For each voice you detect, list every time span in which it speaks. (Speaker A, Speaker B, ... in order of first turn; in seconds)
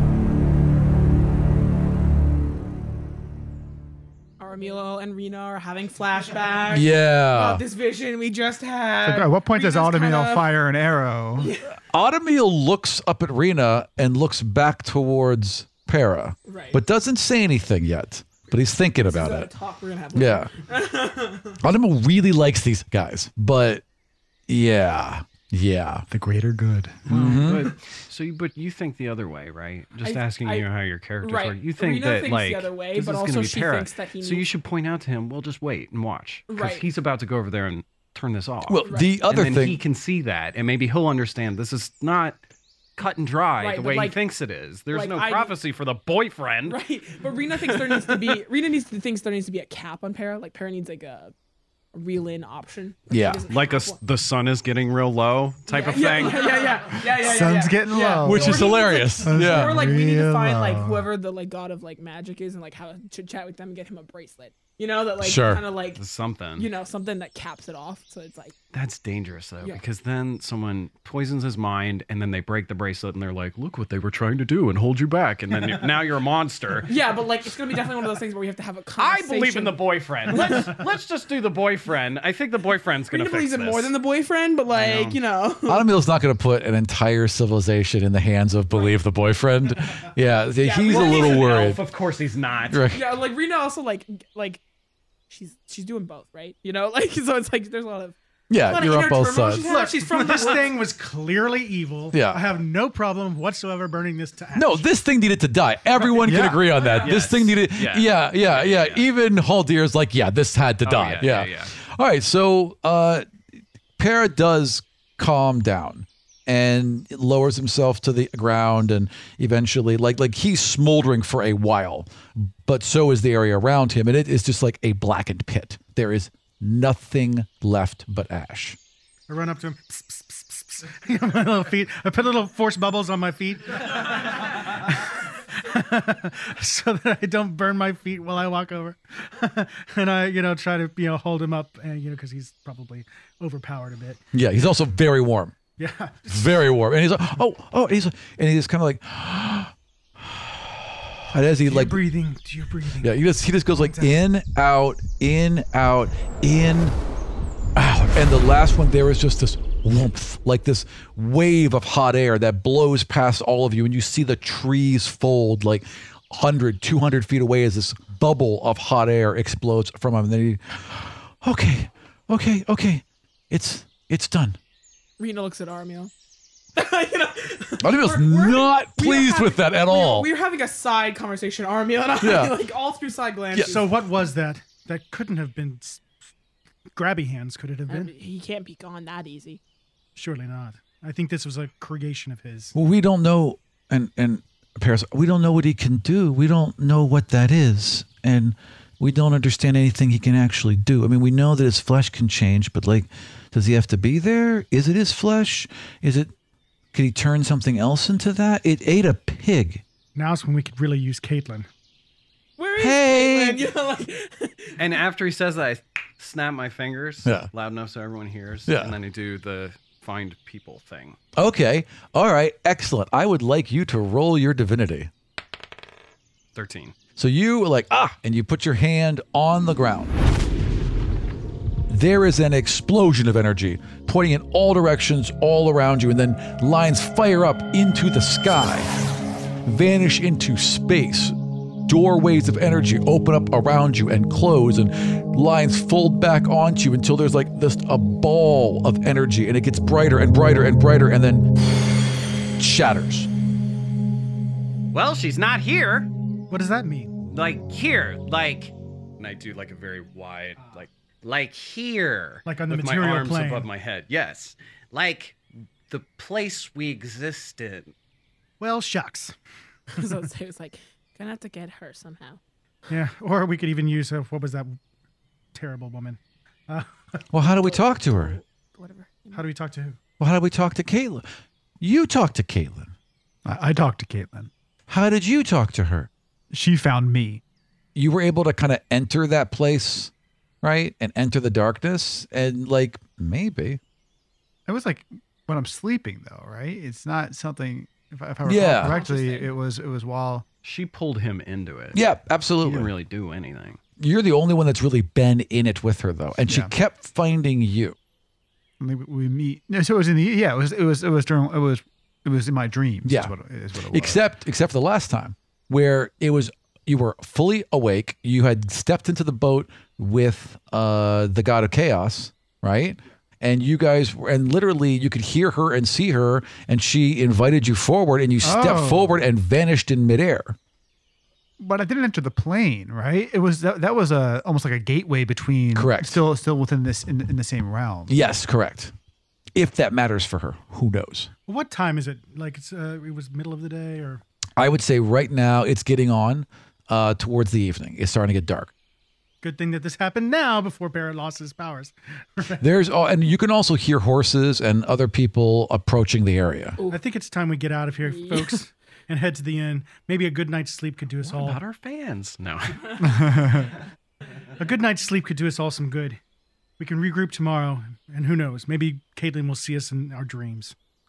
Speaker A: 4.4-10.6, 11.4-11.7, 16.5-16.8, 19.0-21.6, 27.1-27.7, 30.0-30.7, 31.2-34.5, 36.5-36.9, 38.9-39.1, 43.6-44.2, 44.9-45.5, 46.7-51.3, 51.9-54.0, 55.7-66.0, 66.6-68.5, 76.9-80.8, 83.1-85.9, 90.6-91.7, 92.9-94.6, 95.3-100.8, 106.7-107.2, 175.2-176.1, 176.8-183.9, 187.9-189.6, 212.6-214.9, 269.9-272.4, 277.4-279.4, 298.8-299.6, 358.0-358.6
Speaker B: 6.7-7.6, 11.9-19.5, 20.1-20.5, 21.6-23.8, 24.5-26.1, 27.1-27.7, 38.7-39.8, 53.1-53.4, 58.2-59.9, 65.2-65.6, 85.7-91.8, 92.7-93.1, 98.5-99.7, 102.1-102.4, 104.5-113.3, 114.0-128.8, 144.3-145.6, 146.3-152.0, 153.0-156.9, 157.8-174.6, 177.8-180.3, 182.2-182.6, 192.8-206.3, 206.9-209.8, 212.8-213.7, 218.7-218.9, 221.4-225.1, 227.2-230.2, 231.9-239.0, 239.7-241.4, 241.9-251.5, 252.6-253.3, 277.3-278.4, 280.2-281.3, 281.8-282.9, 284.9-286.1, 287.9-293.8, 298.4-299.0, 301.9-302.9, 304.0-308.0, 313.0-330.6, 335.7-336.2, 338.1-338.9, 339.6-341.3, 344.6-348.7, 352.6-356.8
Speaker C: 9.0-11.5, 26.1-27.1, 57.1-61.1, 106.2-106.7, 283.4-284.5, 286.5-287.4, 294.7-300.5, 306.5-306.7, 308.8-314.2, 328.4-329.2, 331.6-338.2, 363.0-363.7
Speaker D: 27.1-42.4, 43.0-46.8, 47.5-48.4, 53.5-56.9, 66.0-66.7, 68.7-76.9, 79.0-83.9, 84.7-85.2, 90.9-92.8, 106.3-109.0, 110.8-111.7, 214.8-221.2, 226.6-226.9, 254.9-256.1, 257.3-267.9, 300.6-302.0, 302.6-303.8, 361.2-363.3
Speaker E: 99.6-104.8, 129.3-144.2, 145.8-146.5, 151.6-154.2, 183.7-186.1, 186.9-188.1, 190.2-192.7, 210.2-211.7, 256.5-257.2, 262.5-263.7, 268.6-269.4, 272.9-274.8, 275.5-277.2, 279.3-280.0, 341.5-344.2, 349.4-352.6, 356.9-361.6, 364.6-366.2, 366.8-370.8